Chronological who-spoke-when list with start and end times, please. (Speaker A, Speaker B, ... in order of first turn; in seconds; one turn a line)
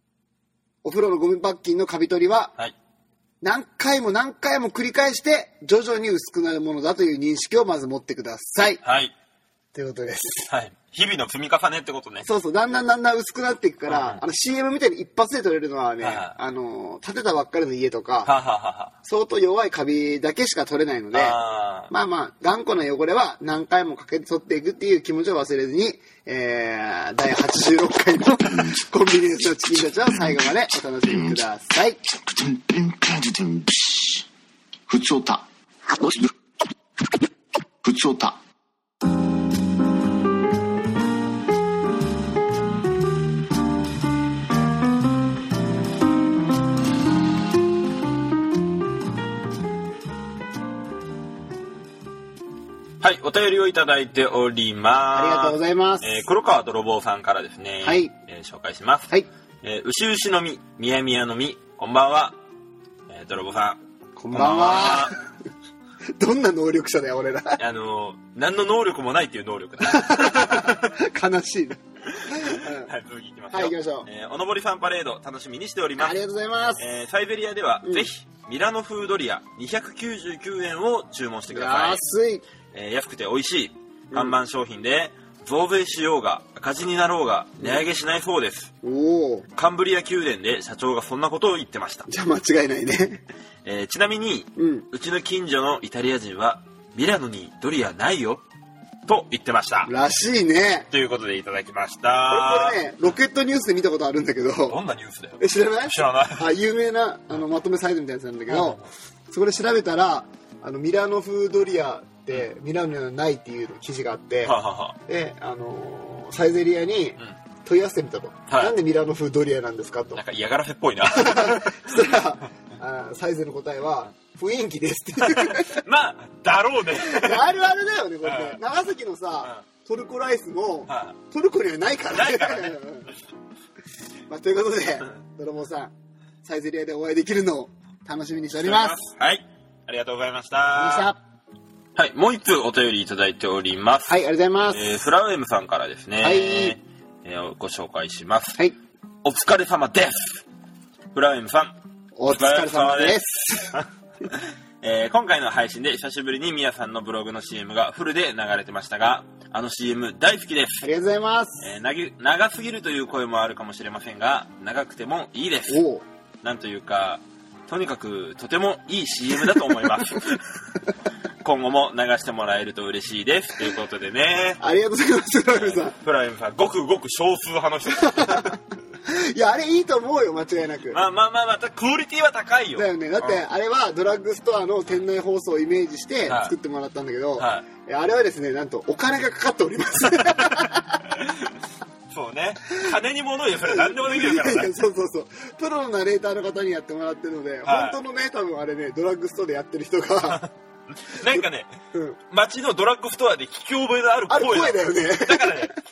Speaker A: 0.8-2.5
Speaker A: 3.4-8.8
Speaker B: 8.8-9.1
Speaker A: 9.7-10.5
Speaker B: 10.5-12.3
Speaker A: 12.2-18.3
Speaker B: 13.9-14.2
Speaker B: 16.0-16.4
Speaker B: 18.2-18.9
Speaker A: 19.0-32.0
Speaker B: 21.1-21.9
Speaker C: 28.5-28.8
Speaker C: 31.1-31.4
Speaker C: 32.1-34.3
Speaker C: 34.9-36.3
Speaker C: 37.8-38.4
Speaker B: 53.0-59.1
Speaker A: 55.1-56.2
Speaker A: 57.8-58.1
Speaker B: 59.6-62.4
Speaker B: 63.1-63.8
Speaker A: 64.2-65.2
Speaker B: 64.3-65.2
Speaker A: 66.2-67.6
Speaker B: 67.6-70.9
Speaker A: 69.8-71.8
Speaker B: 72.1-76.2
Speaker A: 72.3-72.9
Speaker A: 73.5-74.1
Speaker A: 76.0-76.9
Speaker B: 76.8-82.0
Speaker A: 77.8-78.1
Speaker A: 81.5-82.5
Speaker B: 82.7-88.7
Speaker A: 84.1-84.4
Speaker A: 88.8-89.5
Speaker B: 89.5-92.1
Speaker A: 92.1-93.2
Speaker B: 93.7-98.4
Speaker A: 94.6-94.9
Speaker B: 99.1-99.9
Speaker A: 99.9-100.9
Speaker B: 100.9-103.1
Speaker A: 102.3-104.8
Speaker B: 104.7-106.5
Speaker A: 105.4-114.6
Speaker B: 108.5-108.9
Speaker B: 114.4-115.0
Speaker A: 115.1-120.2
Speaker B: 118.5-118.8
Speaker B: 120.1-122.0
Speaker A: 121.0-125.8
Speaker B: 125.2-127.5
Speaker A: 126.9-133.1
Speaker B: 128.2-128.6
Speaker B: 130.9-131.2
Speaker B: 132.1-132.8
Speaker A: 134.3-139.0
Speaker B: 138.6-141.1
Speaker A: 140.8-141.2
Speaker B: 142.0-148.6
Speaker A: 144.1-144.8
Speaker A: 146.2-146.8
Speaker B: 149.2-150.4
Speaker B: 151.1-151.8
Speaker A: 152.2-153.8
Speaker B: 152.3-153.2
Speaker B: 153.8-160.9
Speaker A: 160.8-161.7
Speaker B: 161.6-165.8
Speaker A: 165.7-166.1
Speaker B: 166.4-170.4
Speaker B: 171.4-174.6
Speaker A: 174.6-176.0
Speaker B: 175.5-178.6
Speaker A: 178.0-181.1
Speaker B: 180.9-183.4
Speaker A: 182.8-191.0
Speaker B: 186.3-186.5
Speaker B: 187.4-187.7
Speaker B: 191.2-191.4
Speaker B: 192.1-194.7
Speaker A: 193.7-200.4
Speaker B: 197.7-198.0
Speaker B: 200.3-201.8
Speaker A: 201.3-202.2
Speaker B: 202.3-205.8
Speaker A: 204.3-205.8